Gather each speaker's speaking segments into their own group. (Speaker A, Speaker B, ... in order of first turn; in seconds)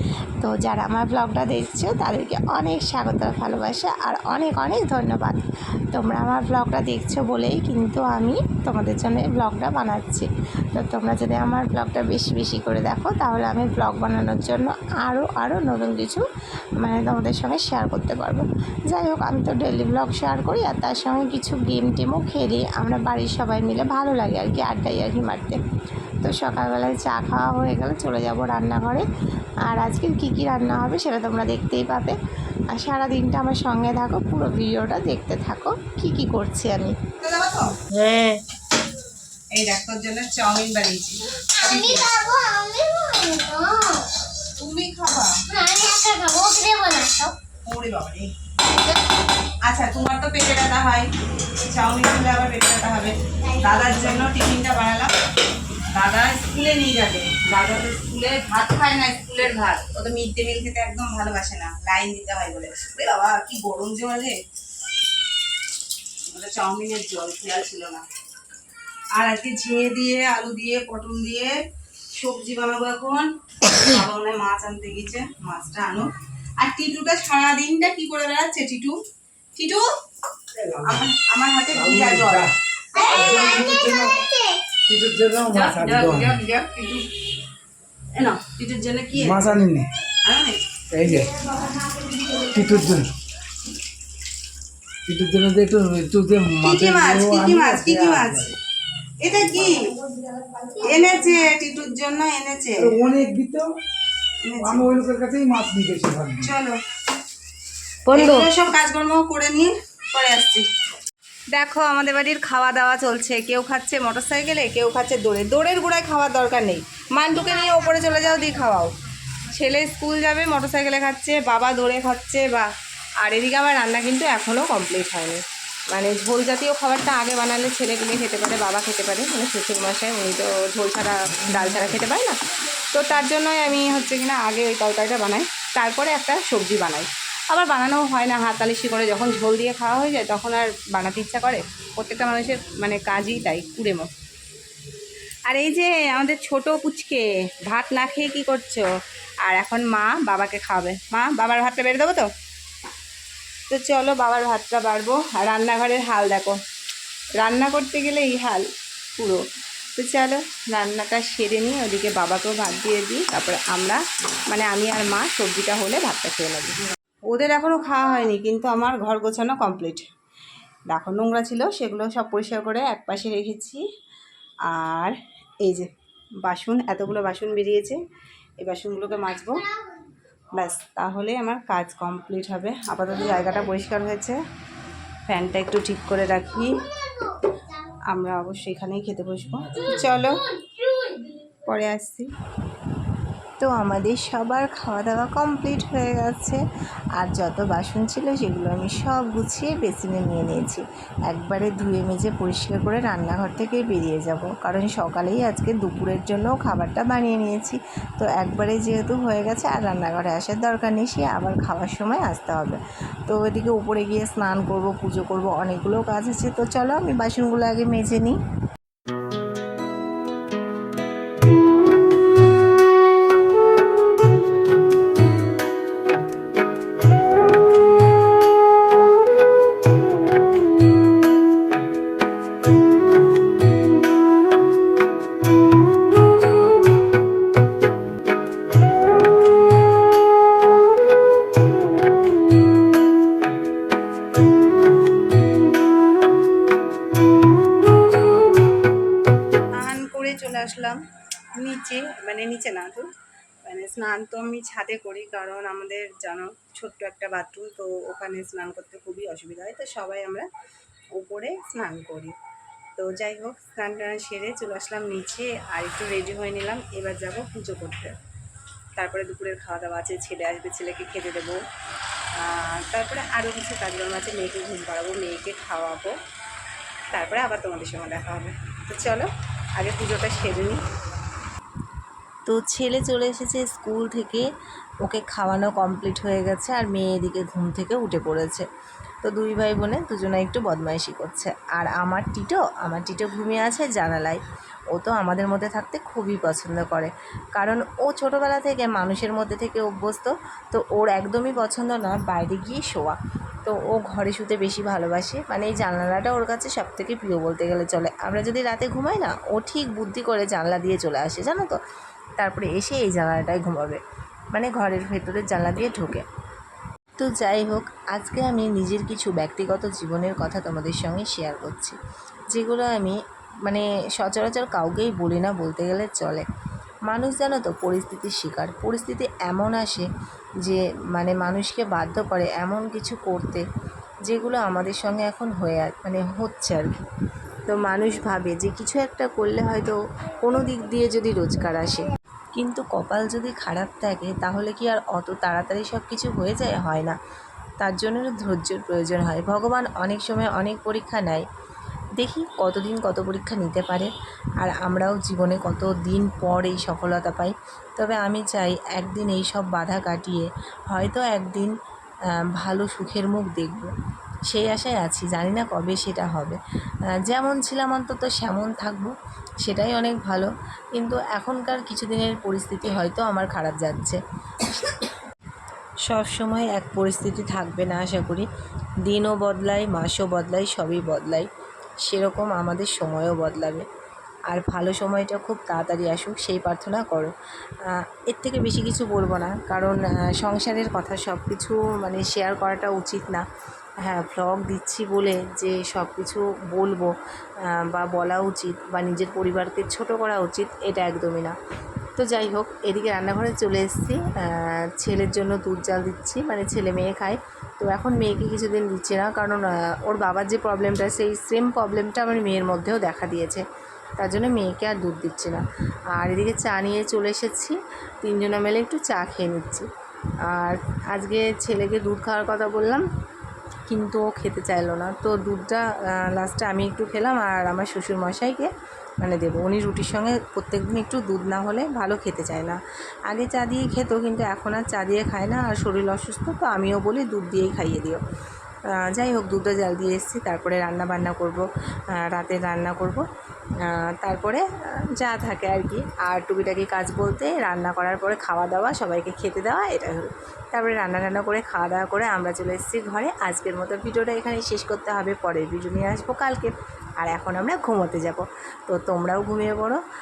Speaker A: 0.4-16.2, 16.8-25.6, 26.2-29.1, 29.7-32.2, 32.7-37.0, 193.6-196.6, 197.2-218.4, 282.4-284.4, 285.0-288.6, 289.2-294.4, 294.9-311.8, 312.4-314.0, 314.5-316.2, 317.2-322.0, 322.5-326.4, 327.1-330.1, 330.6-333.6, 334.3-336.9, 337.7-347.2, 347.8-351.4, 352.2-361.7, 362.6-363.9, 364.5-366.6, 367.3-374.2, 376.1-378.5, 379.0-381.5, 382.1-383.8, 384.5-387.3, 387.9-393.4, 394.1-397.1, 397.7-401.6, 402.2-413.6, 414.2-415.6, 416.1-419.9, 420.5-423.0, 423.9-428.7, 429.2-438.2, 439.0-441.6, 442.1-443.2, 443.9-460.0
Speaker B: 37.2-37.8, 39.5-42.1, 44.6-45.4, 47.6-48.3, 49.7-51.1, 51.6-55.1, 55.9-64.4, 66.3-68.0, 69.1-71.5, 72.1-79.0, 79.5-79.8, 80.8-82.5, 85.5-87.1, 88.1-89.6, 90.2-90.6, 96.6-98.5, 99.2-100.0, 100.6-102.9, 104.4-104.9, 106.4-106.8, 108.1-110.7, 111.5-118.9, 119.4-122.7, 123.2-144.1, 145.5-148.9, 149.4-152.3, 153.7-156.6, 157.4-159.4, 159.9-170.0, 170.9-173.8, 174.7-175.9, 176.4-178.0, 178.6-179.7, 180.5-184.4, 185.3-186.8, 188.1-192.3, 249.8-251.0, 251.6-253.1, 253.6-260.5, 261.1-262.4, 263.0-268.2, 269.0-271.6, 272.4-276.1, 277.1-280.8
Speaker C: 41.6-44.1, 45.5-47.3, 83.0-84.6
Speaker D: 80.6-81.1, 81.7-84.2, 84.9-86.4, 89.1-89.9, 90.9-91.5, 92.3-93.1, 95.0-98.5, 102.8-103.7, 104.6-106.5